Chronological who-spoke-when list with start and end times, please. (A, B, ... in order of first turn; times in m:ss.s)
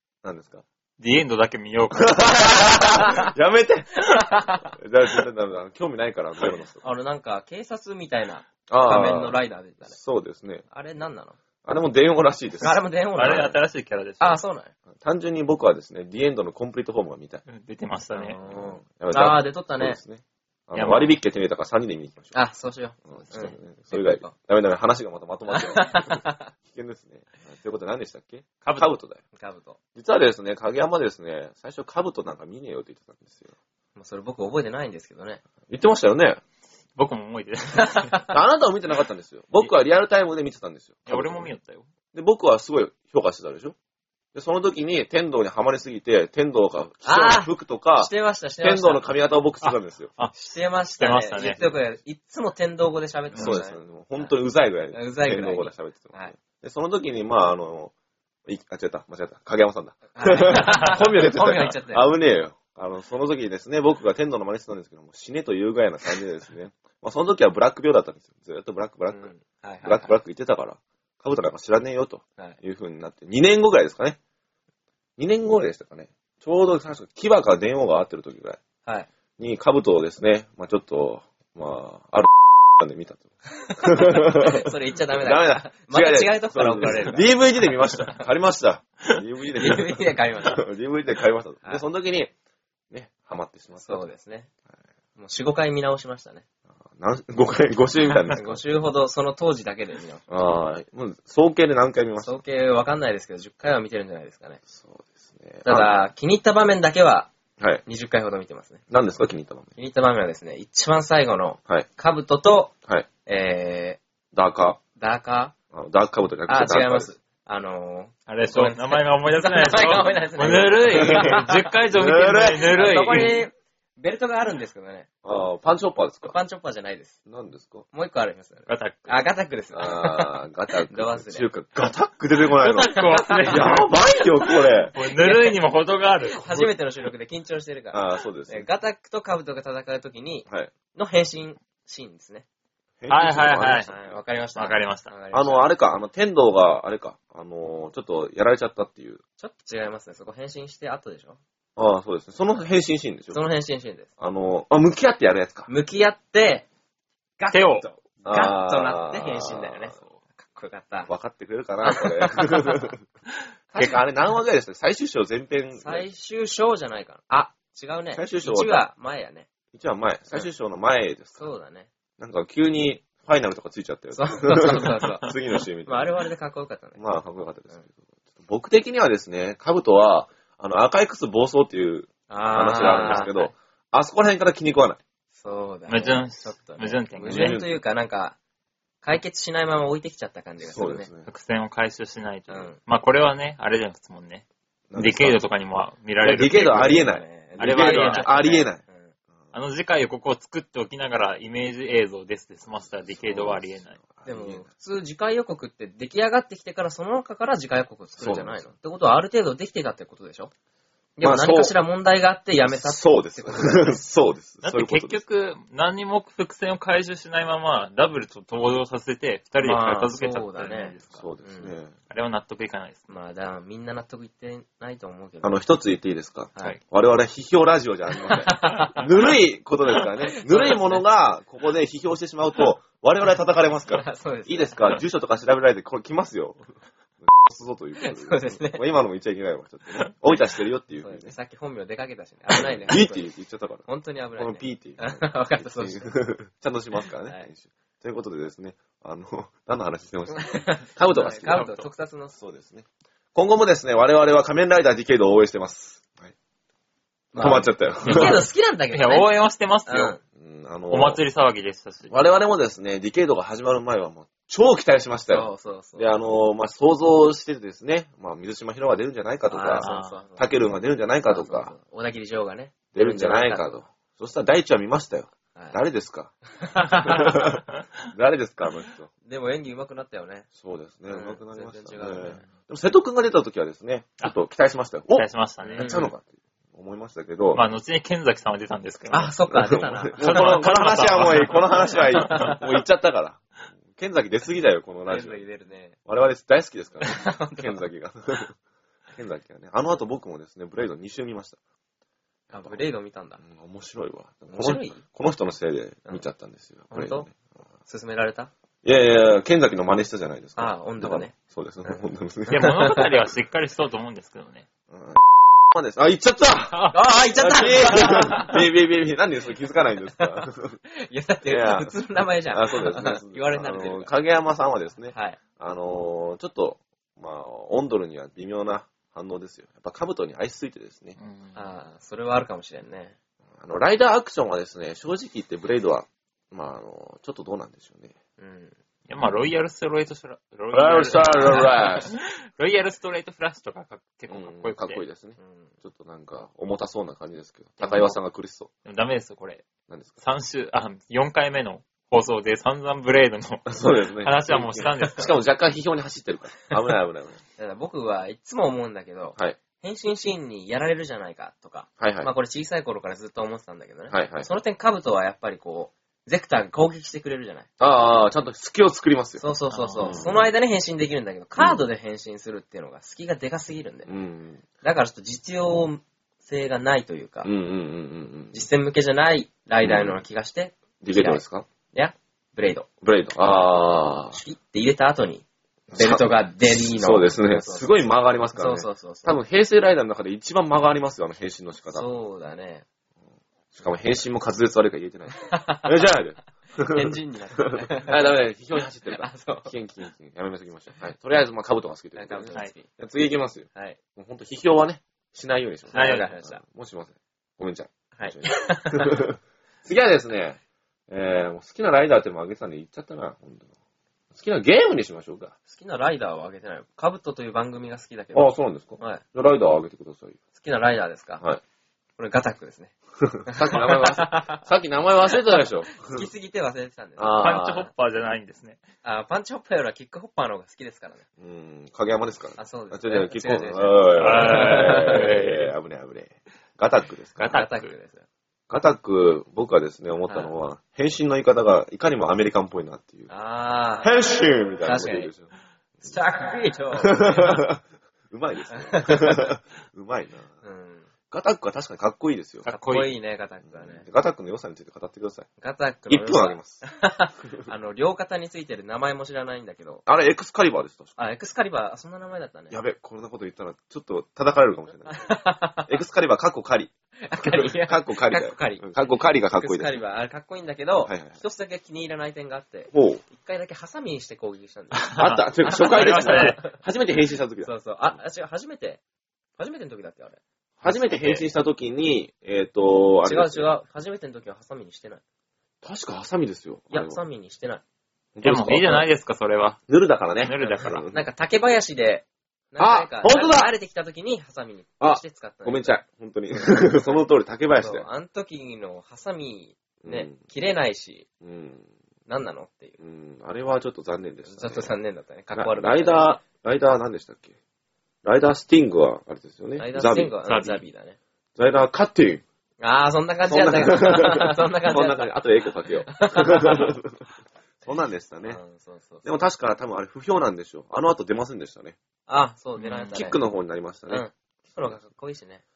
0:00.2-0:00.6 A
0:01.0-0:03.1 B
0:02.0-0:06.8 A
0:04.1-0:04.6 C
0:06.8-0:10.0 C
0:08.7-0:10.6 A
0:10.7-0:11.4 C
0:11.6-0:12.8 A
0:12.6-0:13.6 C
0:13.1-0:14.4 B
0:14.2-0:14.7 C
0:15.0-0:17.4 A
0:17.4-0:18.4 B
0:18.1-0:20.0 C
0:18.4-0:22.3 A
0:20.7-0:21.2 B
0:22.3-0:24.3 C
0:23.1-0:29.2 A
0:25.5-0:26.5 C
0:28.6-0:29.0 B
0:29.3-0:29.8 C
0:29.9-0:33.5 A
0:33.9-0:35.4 C
0:35.7-0:36.4 A
0:37.0-0:38.3 B
0:37.8-0:38.2 C
0:38.3-0:41.5 A
0:41.1-0:41.8 B
0:42.1-0:43.7 A
0:44.3-0:50.1 A
0:47.0-0:49.0 C
0:49.6-0:50.3 B
0:50.3-0:54.3 C
0:51.0-0:51.7 B
0:53.3-0:57.9 A
0:54.9-0:56.3 C
0:58.4-1:09.3 A
1:00.1-1:02.1 C
1:09.1-1:10.1 C
1:09.8-1:14.2 A
1:15.2-1:18.6 A
1:19.4-1:32.3 A
1:23.5-1:27.4 C
1:26.7-1:27.2 B
1:29.6-1:30.6 C
1:32.9-1:34.1 A
1:33.8-1:34.5 C
1:35.2-1:36.4 C
1:36.9-1:38.6 A
1:38.2-1:40.2 C
1:40.3-1:42.4 A
1:42.2-1:44.6 C
1:44.7-1:45.9 A
1:45.6-1:47.3 C
1:47.8-1:48.8 C
1:48.9-1:49.7 A
1:49.8-1:52.7 C
1:53.2-1:54.0 C
1:54.3-1:54.8 A
1:55.0-1:55.5 C
1:55.7-1:57.1 A
1:56.5-2:01.7 C
1:58.3-2:03.4 B
2:00.9-2:02.8 A
2:02.6-2:05.1 C
2:05.2-2:06.3 A
2:06.2-2:07.2 C
2:07.3-2:07.8 A
2:07.9-2:10.3 C
2:08.7-2:09.2 B
2:09.7-2:14.9 A
2:10.9-2:11.5 C
2:12.6-2:13.9 B
2:12.9-2:14.0 C
2:14.9-2:16.7 B
2:15.0-2:15.6 C
2:16.2-2:22.4 C
2:17.9-2:18.7 A
2:23.0-2:24.1 A
2:23.1-2:23.9 B
2:23.9-2:25.7 C
2:24.6-2:25.1 B
2:25.3-2:29.2 A
2:29.4-2:31.4 C
2:31.8-2:33.4 A
2:33.3-2:34.1 C
2:34.2-2:35.7 A
2:35.7-2:36.6 C
2:37.4-2:41.1 C
2:37.5-2:37.9 B
2:38.2-2:39.9 A
2:41.1-2:43.0 A
2:41.8-2:42.9 C
2:43.7-2:46.1 A
2:45.8-2:49.5 C
2:48.1-2:48.8 A
2:49.7-2:51.5 A
2:51.4-2:51.9 C
2:52.2-2:56.2 A
2:54.1-2:55.3 C
2:55.8-2:57.0 C
2:57.0-3:05.0 A
3:02.3-3:03.5 C
3:02.7-3:03.3 B
3:05.3-3:08.4 C
3:05.9-3:07.6 B
3:07.2-3:07.8 A
3:09.0-3:11.1 C
3:10.6-3:11.3 A
3:11.2-3:14.4 B
3:12.5-3:12.8 C
3:14.9-3:15.4 A
3:15.0-3:17.0 B
3:16.2-3:18.8 A
3:16.4-3:19.1 C
3:17.6-3:18.6 B
3:19.5-3:24.0 B
3:23.1-3:24.6 A
3:24.2-3:30.5 C
3:28.2-3:28.6 A
3:31.2-3:34.0 C
3:31.2-3:31.7 A
3:32.6-3:35.2 A
3:34.6-3:41.3 B
3:39.6-3:41.7 C
3:41.1-3:41.9 A
3:42.1-3:43.1 B
3:43.1-3:45.6 C
3:45.4-3:56.6 A
3:48.3-3:49.0 C
3:50.3-3:51.0 C
3:53.9-3:55.0 C
3:57.2-4:01.3 A
3:58.0-3:58.8 C
4:01.0-4:03.3 C
4:02.5-4:11.7 A
4:03.8-4:06.2 C
4:07.2-4:07.5 C
4:10.4-4:12.3 C
4:11.4-4:11.9 B
4:12.3-4:16.3 A
4:17.3-4:19.3 C
4:17.4-4:18.4 A
4:18.0-4:20.2 B
4:19.8-4:20.2 C
4:20.4-4:21.2 A
4:20.9-4:22.2 B
4:22.1-4:31.7 A
4:25.3-4:26.1 C
4:29.5-4:30.5 C
4:29.7-4:30.2 B
4:31.2-4:33.8 C
4:32.9-4:36.3 A
4:36.5-4:37.6 C
4:36.9-4:39.1 A
4:39.2-4:40.5 C
4:40.6-4:47.6 A
4:41.1-4:42.4 C
4:45.1-4:46.0 B
4:45.6-4:46.1 C
4:47.5-4:49.4 B
4:49.1-4:50.9 C
4:49.5-4:55.4 A
4:50.2-4:52.6 B
4:51.9-4:52.6 C
4:55.1-4:56.0 C
4:56.0-4:58.5 A
4:57.0-4:57.8 C
4:59.2-5:01.6 A
5:02.5-5:02.8 A
5:02.5-5:03.4 C
5:03.4-5:07.3 A
5:04.5-5:05.0 C
5:06.9-5:07.3 C
5:07.9-5:08.5 C
5:08.8-5:12.8 A
5:10.6-5:11.3 C
5:12.5-5:14.6 B
5:12.5-5:13.1 C
5:14.9-5:20.8 A
5:16.9-5:18.6 C
5:20.2-5:24.1 C
5:21.4-5:22.0 A
5:22.5-5:31.2 A
5:25.1-5:25.4 C
5:31.2-5:31.7 B
5:31.5-5:33.2 C
5:33.6-5:38.1 A
5:38.4-5:38.8 C
5:39.1-5:45.0 B
5:40.7-5:42.1 A
5:44.3-5:48.7 A
5:45.4-5:45.7 C
5:47.8-5:48.1 B
5:48.8-5:49.6 B
5:50.2-5:55.4 B
5:53.7-5:57.4 A
5:57.6-6:08.1 C
6:02.0-6:02.3 A
6:04.1-6:04.5 A
6:07.8-6:09.5 A
6:09.4-6:14.1 C
6:09.7-6:10.2 B
6:10.0-6:10.5 A
6:14.0-6:14.6 A
6:14.8-6:17.5 C
6:17.4-6:18.6 A
6:18.5-6:22.9 C
6:19.8-6:20.2 A
6:21.0-6:21.7 A
6:23.0-6:24.4 A
6:24.3-6:28.0 C
6:25.9-6:32.1 A
6:28.5-6:29.4 C
6:31.9-6:32.8 C
6:33.7-6:53.7 A
6:35.4-6:36.0 C
6:36.8-6:38.4 C
6:39.0-6:39.7 C
6:42.1-6:42.9 C
6:43.7-6:44.0 C
6:45.9-6:46.6 C
6:45.9-6:46.3 B
6:48.2-6:49.2 C
6:54.3-6:55.5 A
6:55.7-6:59.2 C
6:58.3-7:00.4 A
7:00.6-7:01.4 C
7:02.2-7:02.9 C
7:03.2-7:06.2 A
7:03.5-7:04.6 C
7:05.3-7:07.4 C
7:07.2-7:07.9 A
7:07.4-7:08.8 B
7:09.0-7:11.2 C
7:11.4-7:17.5 A
7:12.6-7:15.3 C
7:14.2-7:15.7 B
7:17.4-7:17.9 B
7:17.5-7:18.2 C
7:18.7-7:23.3 A
7:23.3-7:24.1 C
7:24.0-7:26.1 A
7:24.8-7:25.3 C
7:26.0-7:27.6 C
7:27.0-7:30.5 A
7:28.7-7:29.5 C
7:30.6-7:31.1 C
7:31.3-7:32.7 A
7:32.6-7:33.1 B
7:32.6-7:34.0 C
7:33.6-7:35.5 A
7:35.6-7:40.0 C
7:36.1-7:36.8 A
7:40.0-7:41.1 A
7:41.2-7:42.7 C
7:42.7-7:45.3 A
7:45.1-7:45.9 C
7:45.8-7:50.0 A
7:47.2-7:56.6 C
7:51.0-7:51.4 A
7:52.9-7:53.2 A
7:54.9-7:56.6 B
7:55.2-7:57.7 A
7:57.6-7:59.0 C
7:59.6-8:01.4 C
8:00.8-8:03.7 A
8:03.2-8:05.2 C
8:05.8-8:07.2 A
8:06.9-8:07.8 C
8:08.4-8:09.0 A
8:08.4-8:09.8 B
8:09.9-8:11.2 A
8:10.4-8:11.0 B
8:11.1-8:15.9 C
8:12.8-8:13.7 A
8:15.0-8:18.1 A
8:17.7-8:21.2 C
8:20.0-8:20.4 A
8:21.4-8:21.9 A
8:22.3-8:23.0 C
8:23.0-8:24.9 A
8:24.5-8:26.4 C
8:25.5-8:27.5 A
8:28.2-8:30.4 A
8:29.8-8:31.2 C
8:30.4-8:30.8 B
8:31.6-8:32.4 A
8:32.8-8:35.3 C
8:33.5-8:37.2 A
8:36.1-8:36.9 C
8:37.8-8:38.6 A
8:37.8-8:39.2 C
8:39.2-8:42.0 A
8:42.3-8:43.4 C
8:42.8-8:43.2 B
8:43.1-8:44.2 A
8:44.1-8:45.6 C